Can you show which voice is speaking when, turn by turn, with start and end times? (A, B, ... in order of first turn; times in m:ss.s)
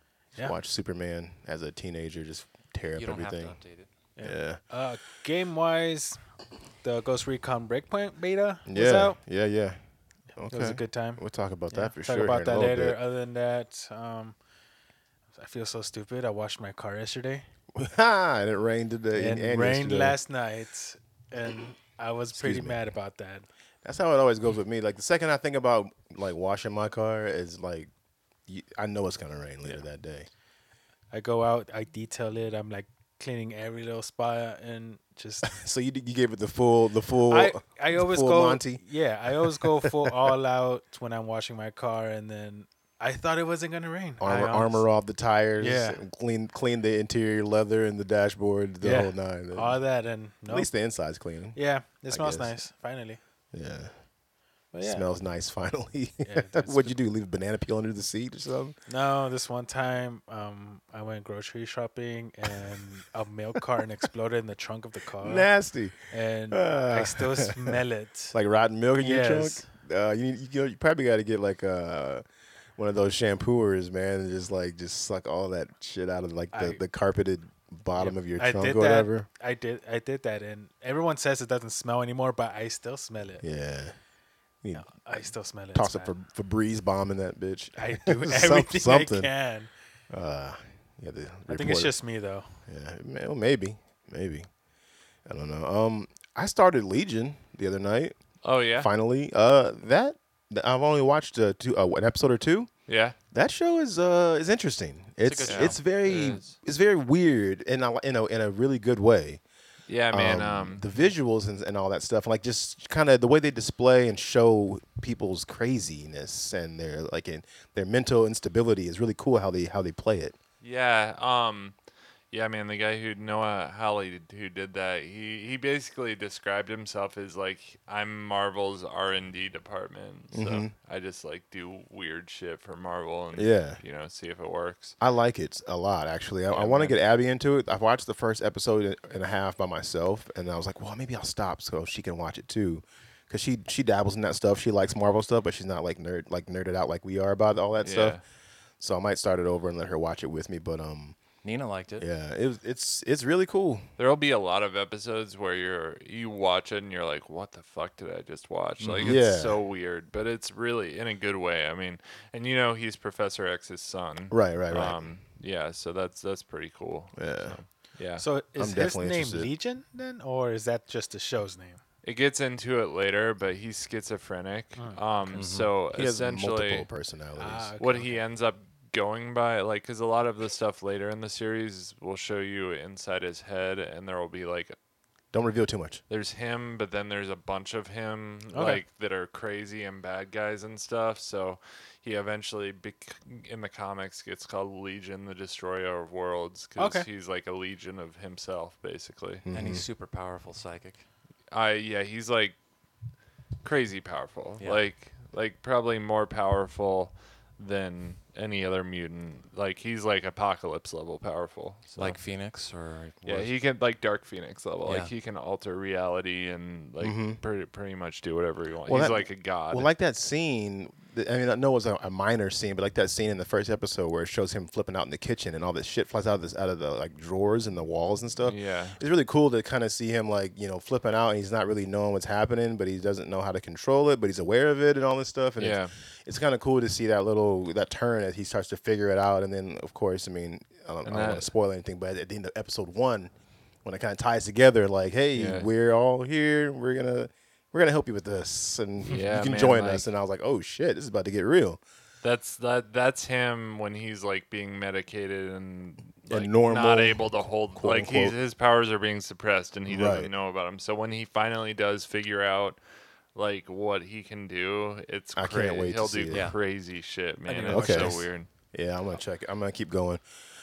0:00.4-0:03.6 A
0:02.9-0:03.9 B
0:04.2-0:06.2 C
0:04.2-0:04.6 A
0:06.8-0:09.2 C
0:08.6-0:09.8 A
0:10.4-0:13.0 A
0:10.5-0:14.4 C
0:15.3-0:17.4 C
0:17.7-0:20.2 A
0:19.1-0:23.4 C
0:22.3-0:22.8 A
0:23.8-0:27.9 A
0:28.5-0:30.3 A
0:31.1-0:35.6 C
0:35.4-0:38.8 A
0:37.3-0:44.9 C
0:39.4-0:40.1 A
0:44.2-0:49.8 A
0:45.6-0:46.0 C
0:48.8-0:50.7 C
0:50.5-0:51.6 A
0:51.5-0:53.2 C
0:52.1-0:52.5 A
0:53.5-0:53.9 A
0:54.7-0:55.0 C
0:54.8-0:58.8 A
0:56.2-0:56.9 C
0:58.9-1:05.5 C
1:05.2-1:07.8 A
1:06.1-1:08.3 C
1:08.3-1:12.2 A
1:09.0-1:09.7 C
1:12.8-1:19.3 A
1:16.5-1:16.8 C
1:18.0-1:23.4 C
1:23.4-1:24.0 A
1:24.6-1:29.3 A
1:24.7-1:26.1 C
1:27.8-1:29.7 C
1:30.1-1:31.9 A
1:31.5-1:32.6 C
1:32.7-1:34.5 A
1:35.2-1:38.2 A
1:38.4-1:38.9 D
1:38.8-1:42.7 A
1:42.9-1:43.2 D
1:43.3-1:49.4 A
1:45.2-1:45.8 B
1:45.4-1:46.5 D
1:49.9-1:50.8 D
1:50.1-2:00.3 A
2:00.6-2:01.8 D
2:02.3-2:15.0 D
2:10.3-2:10.7 A
2:13.3-2:13.8 A
2:15.0-2:28.2 A
2:16.5-2:17.0 D
2:27.8-2:28.2 D
2:28.8-2:31.2 A
2:31.4-2:32.0 B
2:32.0-2:33.8 A
2:34.0-2:48.2 D
2:38.8-2:39.1 B
2:38.9-2:39.6 A
2:44.3-2:45.0 A
2:47.2-2:47.6 A
2:48.2-2:51.8 C
2:48.6-2:49.5 A
2:52.0-2:56.9 D
2:55.3-2:55.7 B
2:55.9-2:57.7 A
2:57.4-2:58.2 C
2:57.8-3:04.8 D
3:05.3-3:06.0 A
3:06.1-3:19.4 D
3:08.5-3:08.8 C
3:16.8-3:17.1 C
3:19.4-3:19.8 A
3:19.5-3:21.0 B
3:21.5-3:22.6 D
3:23.6-3:32.2 D
3:32.0-3:33.5 B
3:33.2-3:39.9 D
3:34.8-3:35.1 B
3:37.0-3:37.4 A
3:38.9-4:03.3 A
3:48.4-3:49.0 D
3:55.6-3:55.9 D
4:01.0-4:01.5 D
4:03.8-4:11.8 A
4:05.3-4:05.7 D
4:09.1-4:10.1 D
4:12.2-4:22.8 D
4:16.3-4:18.3 A
4:19.9-4:20.3 A
4:23.3-4:28.5 D
4:25.4-4:26.5 A
4:26.3-4:26.6 B
4:27.5-4:28.3 C
4:27.7-4:30.2 A